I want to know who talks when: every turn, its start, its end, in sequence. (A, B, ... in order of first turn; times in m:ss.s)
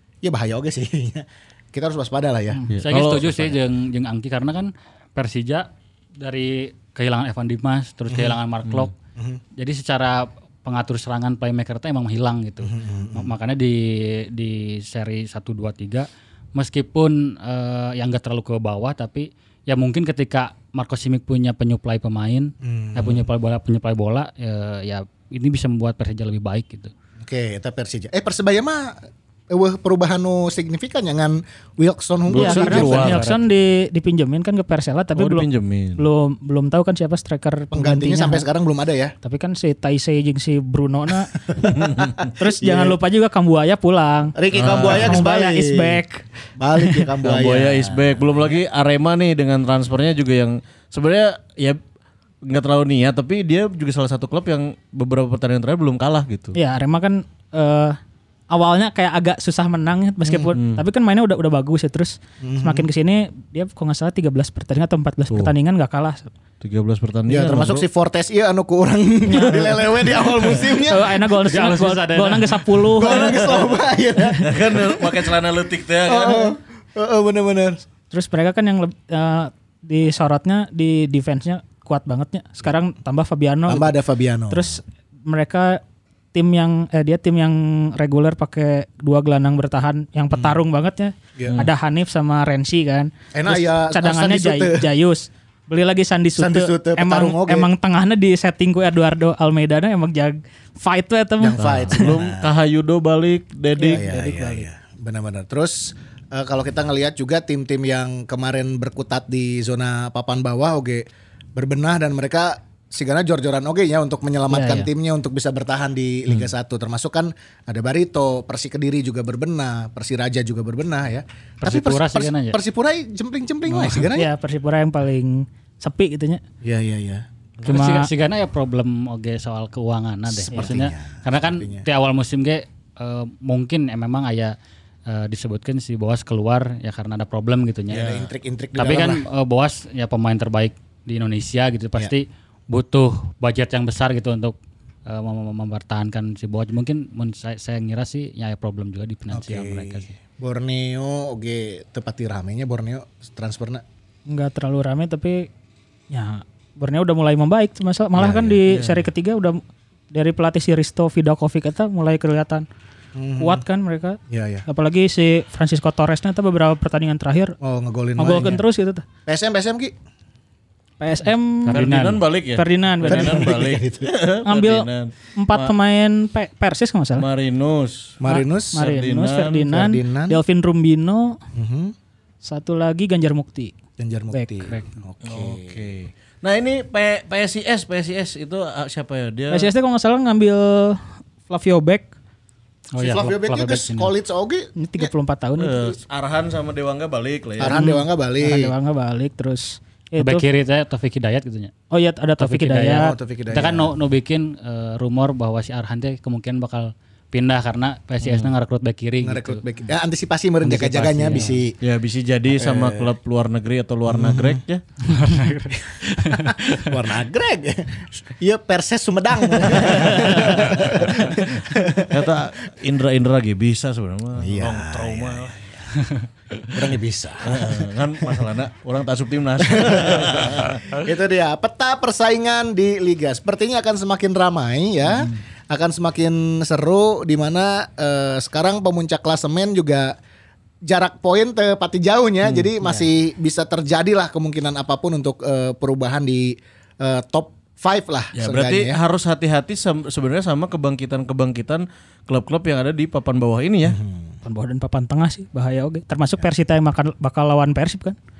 0:00.2-0:02.6 A
0:02.7-0:03.6 B
0:02.8-0:08.9 C
0:08.1-0:08.4 A
0:09.6-0:26.9 C
0:12.6-0:13.3 A
0:22.6-0:23.2 A
0:27.2-0:33.2 A
0:32.3-0:33.3 B
0:32.3-0:35.5 D
0:32.6-0:33.4 C
0:35.1-0:36.0 B
0:36.0-0:38.4 D
0:37.7-0:39.1 A
0:39.2-0:46.2 D
0:41.6-0:43.0 A
0:41.7-0:42.2 B
0:44.4-0:46.0 A
0:44.5-0:45.2 B
0:46.6-0:48.4 A
0:46.8-0:47.1 D
0:47.2-0:51.8 B
0:52.4-0:56.6 B
0:56.5-0:58.0 D
0:58.5-1:06.3 D
1:00.2-1:00.5 A
1:00.5-1:00.8 B
1:02.4-1:02.9 A
1:06.6-1:07.8 B
1:07.3-1:11.2 A
1:09.3-1:09.6 D
1:09.3-1:10.5 B
1:10.6-1:13.6 D
1:11.3-1:12.8 C
1:12.9-1:15.2 A
1:13.0-1:13.5 B
1:14.4-1:16.5 B
1:16.0-1:17.8 A
1:18.1-1:23.9 D
1:23.7-1:24.8 A
1:24.5-1:25.8 D
1:26.3-1:42.1 D
1:30.3-1:30.6 A
1:33.3-1:34.9 A
1:36.4-1:37.7 A
1:41.4-1:42.5 A
1:41.6-1:44.2 B
1:43.8-1:44.7 D
1:43.8-2:04.3 A
1:54.5-1:54.9 D
2:01.6-2:02.6 C
2:03.7-2:04.0 C
2:04.1-2:06.4 D
2:06.6-2:07.2 A
2:07.6-2:14.5 C
2:07.6-2:08.1 D
2:10.3-2:11.8 A
2:15.1-2:18.1 C
2:17.9-2:19.2 A
2:17.9-2:18.3 B
2:18.8-2:30.1 C
2:29.3-2:33.8 A
2:34.3-2:35.5 D
2:36.1-2:39.6 D
2:38.1-2:38.6 A
2:38.7-2:39.0 B
2:40.1-2:42.6 D
2:43.2-2:43.6 A
2:43.4-2:47.6 D
2:44.3-2:44.6 A
2:47.6-2:48.6 A
2:48.2-2:49.0 D
2:49.2-2:49.9 A
2:51.0-2:51.9 D
2:51.6-2:52.2 C
2:51.7-2:55.7 B
2:52.5-2:53.6 D
2:53.0-2:54.1 A
2:54.4-2:57.3 D
2:57.1-2:58.2 B
2:58.2-2:58.8 A
2:58.2-3:01.4 D
2:58.8-2:59.7 B
2:59.7-3:00.4 A
3:01.5-3:01.9 A
3:02.4-3:03.7 D
3:04.0-3:05.9 A
3:04.3-3:04.7 D
3:05.2-3:09.7 B
3:09.5-3:12.1 D
3:12.9-3:14.1 C
3:13.0-3:15.1 A
3:14.8-3:15.9 D
3:15.6-3:17.9 B
3:17.6-3:18.7 A
3:17.7-3:20.4 D
3:20.2-3:21.7 C
3:21.9-3:23.1 D
3:22.4-3:29.6 C
3:22.9-3:23.9 A
3:28.2-3:28.5 B
3:29.2-3:31.7 A
3:30.6-3:31.6 C
3:31.8-3:34.8 B
3:32.5-3:33.1 A
3:34.1-3:34.6 A
3:35.1-3:36.6 C
3:35.8-3:42.3 A
3:39.7-3:41.1 B
3:42.1-3:45.6 B
3:44.4-3:45.8 A
3:46.7-3:48.5 A
3:47.4-3:51.0 B
3:49.6-4:00.2 A
4:00.8-4:09.0 A
4:08.4-4:14.0 B
4:13.8-4:14.4 A
4:14.4-4:18.2 D